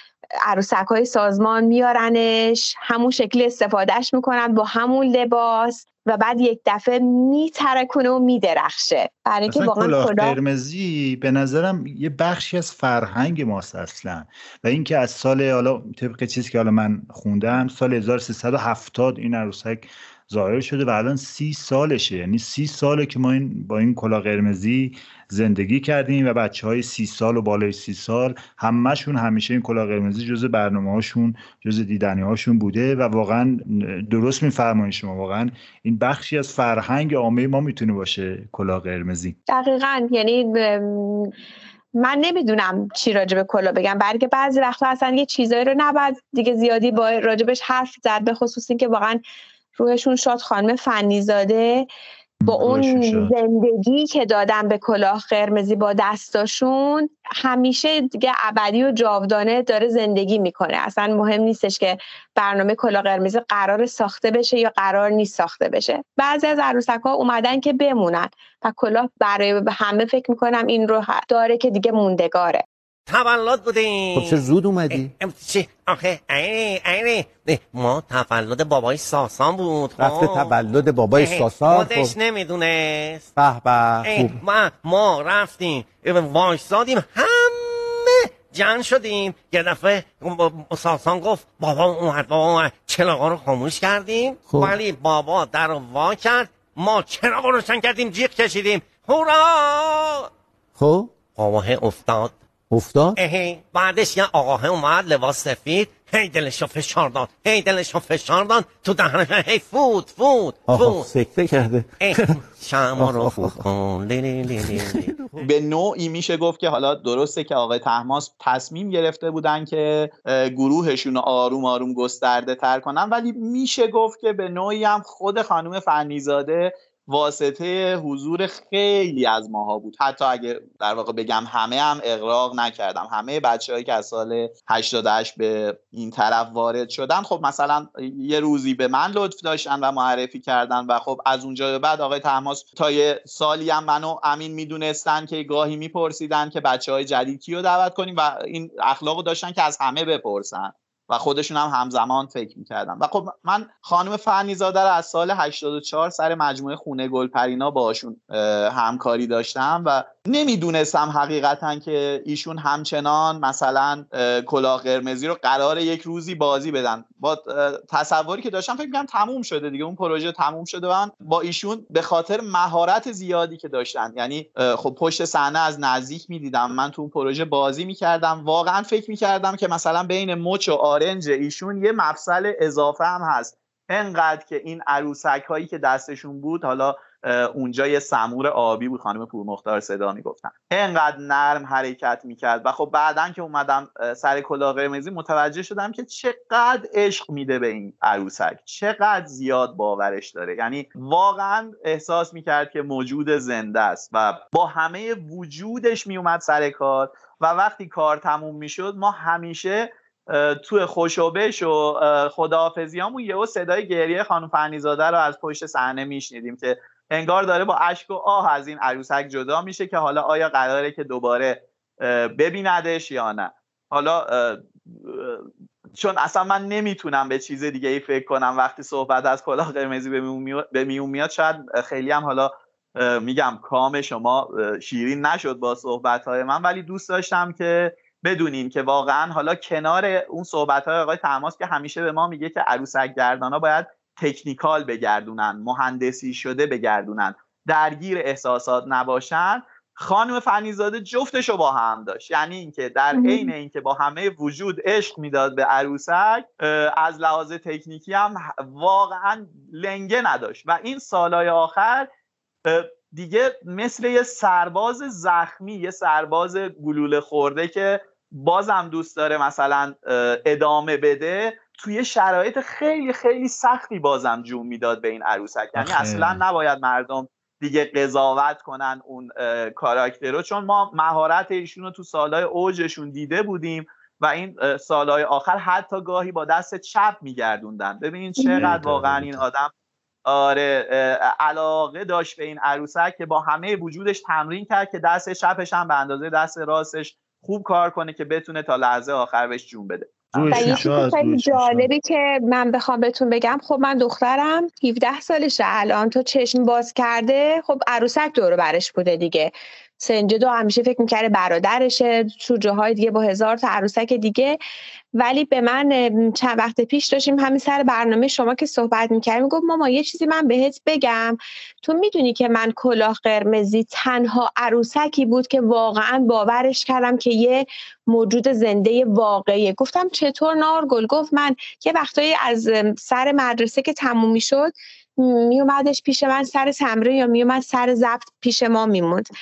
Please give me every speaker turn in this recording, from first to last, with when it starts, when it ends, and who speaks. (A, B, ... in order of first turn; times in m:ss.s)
0:00.4-0:10.4 A
0:09.4-0:39.4 B
0:39.5-0:41.3 A
0:42.0-0:49.2 A
0:49.8-0:51.9 A
0:52.4-0:53.3 B
0:52.4-1:12.6 A
1:13.1-1:20.6 C
1:14.1-1:15.1 D
1:20.0-1:22.1 D
1:21.1-1:23.3 C
1:23.4-1:24.4 D
1:24.0-1:40.3 C
1:34.5-1:34.8 D
1:40.8-1:41.2 D
1:41.3-1:42.3 C
1:42.7-1:43.2 D
1:43.2-1:51.1 C
1:50.7-1:52.4 D
1:52.0-1:55.1 C
1:53.0-1:53.6 D
1:54.6-1:55.5 D
1:55.4-4:22.1 E
4:13.1-4:13.5 A
4:22.6-4:49.7 E
4:35.8-4:36.4 B
4:48.6-4:49.4 B
4:50.2-5:00.8 E
5:00.3-5:01.9 B
5:00.5-5:14.6 A
5:15.2-5:39.3 A